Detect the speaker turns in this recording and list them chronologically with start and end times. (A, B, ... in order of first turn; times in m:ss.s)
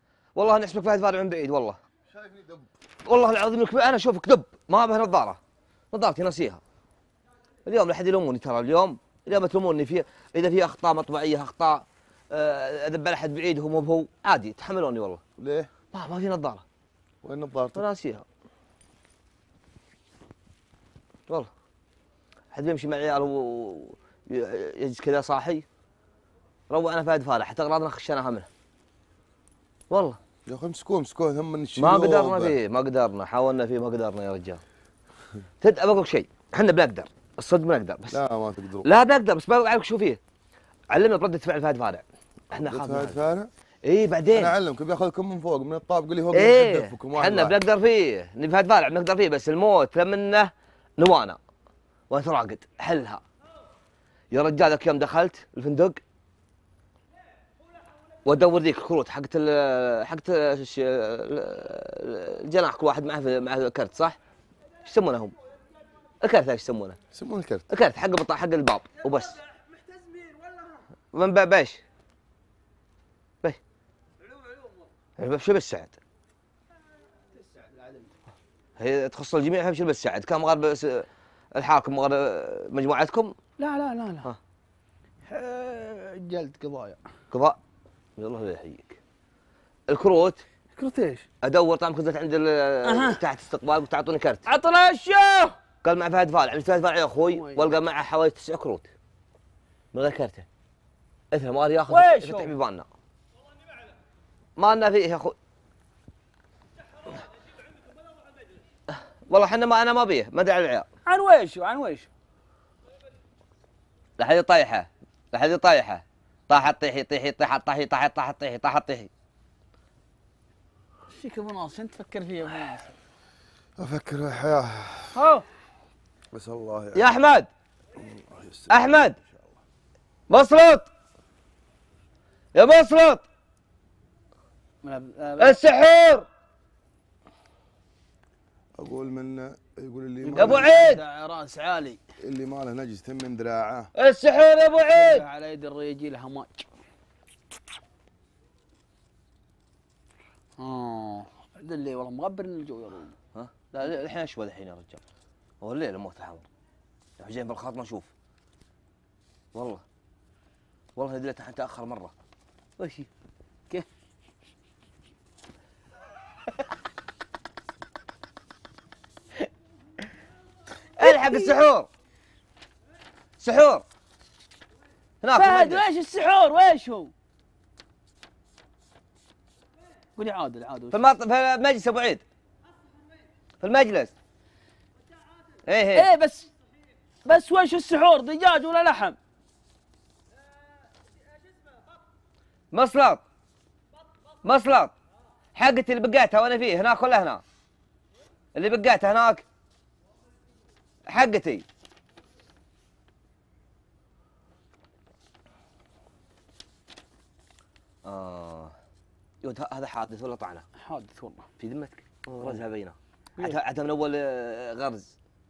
0:00.4-0:01.8 A
0:02.1-0:02.7 B
0:03.1-0:05.4 A
0:05.9-0:06.6 A
0:07.7-0:15.2 A
0:15.4-0:15.7 B
0:15.9-0:16.6 A
0:17.2-0:17.8 B
0:17.7-0:18.3 A
0:22.5-0:25.6 A
0:26.7-0:28.5 A
0:29.9-0:30.2 A
0:30.5-0:32.6 B
0:31.8-0:34.6 A
0:35.6-0:38.2 A
0:38.1-0:38.9 B
0:38.8-0:40.2 A
0:40.9-0:43.2 A
0:42.6-0:43.5 B
0:43.8-0:44.6 A
0:44.3-0:47.6 B
0:46.3-0:51.4 A
0:52.1-0:53.2 A
0:54.3-0:56.0 A
0:58.2-1:04.2 A
1:04.8-1:05.4 A
1:06.2-1:07.0 A
1:07.1-1:07.6 B
1:07.7-1:09.4 A
1:11.1-1:11.8 A
1:15.2-1:16.0 A
1:17.3-1:18.1 C
1:18.8-1:23.4 A
1:23.6-1:24.3 C
1:25.2-1:27.0 C
1:27.3-1:27.6 A
1:28.2-1:29.0 A
1:29.9-1:30.4 A
1:30.8-1:31.3 C
1:31.4-1:34.5 A
1:32.8-1:33.2 C
1:34.5-1:35.6 C
1:35.8-1:38.9 A
1:37.3-1:37.7 C
1:39.9-1:40.5 A
1:41.3-1:42.9 A
1:41.9-1:42.5 C
1:44.6-1:45.4 A
1:48.9-1:50.9 A
1:51.1-1:52.1 C
1:54.2-1:59.1 A
2:01.1-2:03.0 C
2:03.8-2:05.2 B
2:05.1-2:05.5 C
2:06.3-2:07.1 B
2:06.9-2:07.5 A
2:08.0-2:08.9 B
2:08.7-2:09.2 A
2:10.3-2:10.9 A
2:12.6-2:13.2 A
2:14.8-2:15.6 C
2:15.4-2:16.3 A
2:18.8-2:20.7 B
2:20.2-2:22.0 C
2:20.4-2:21.0 A
2:22.2-2:23.9 B
2:24.0-2:25.2 A
2:24.9-2:26.7 C
2:30.6-2:33.2 C
2:33.4-2:35.0 A
2:35.6-2:36.5 A
2:37.2-2:38.1 A
2:39.5-2:39.8 A
2:41.0-2:42.1 A
2:42.8-2:43.1 A
2:51.0-2:51.9 A
2:51.0-2:51.6 C
2:53.4-2:53.8 A
2:55.2-2:55.8 A
2:55.3-2:57.1 C
3:00.2-3:01.0 C
3:00.9-3:02.2 A
3:03.6-3:04.1 A
3:05.7-3:06.1 A
3:05.9-3:06.5 C
3:07.2-3:09.2 C
3:12.7-3:13.2 A
3:14.4-3:14.9 A
3:15.6-3:17.4 A
3:18.6-3:19.4 A
3:21.1-3:21.6 A
3:28.0-3:28.8 A
3:29.4-3:30.7 A
3:30.8-3:31.5 C
3:31.6-3:35.2 A